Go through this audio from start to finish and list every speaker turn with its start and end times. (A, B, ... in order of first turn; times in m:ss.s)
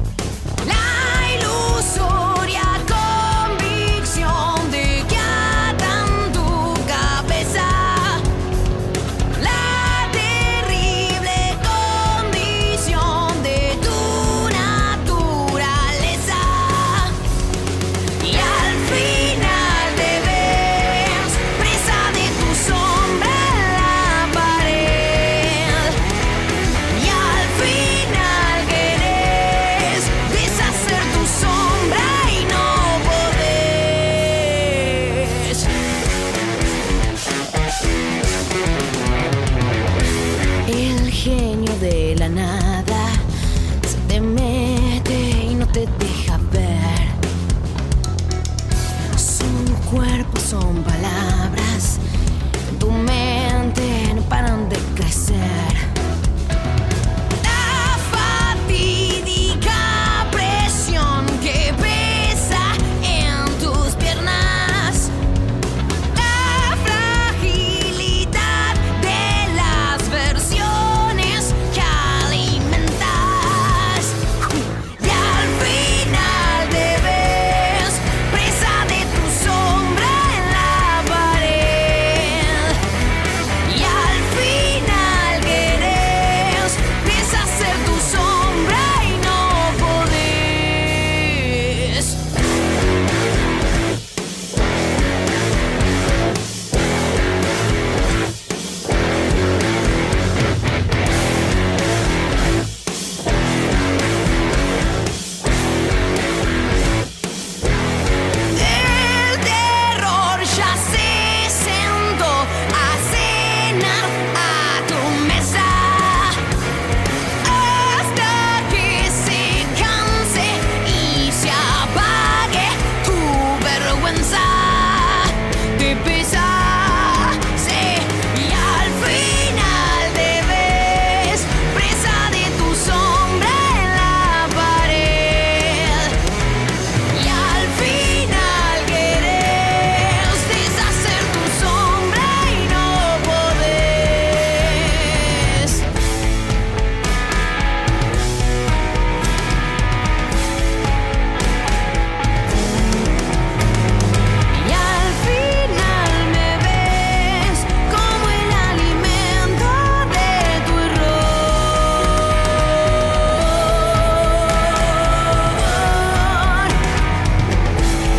0:00.6-0:08.2 A
0:09.4-0:17.1 A
0:18.2-0:26.0 A
0:26.9-0:35.7 A
0:40.6-0:43.2 A
0:43.8-0:47.2 A
0:49.1-0:52.0 A
0:52.7-0:55.9 A
0:57.4-1:05.1 A
1:06.1-1:22.8 A
1:23.6-1:32.2 A
1:48.5-1:56.4 A
1:57.4-2:16.1 A
2:17.1-2:25.8 A
2:34.5-2:46.7 A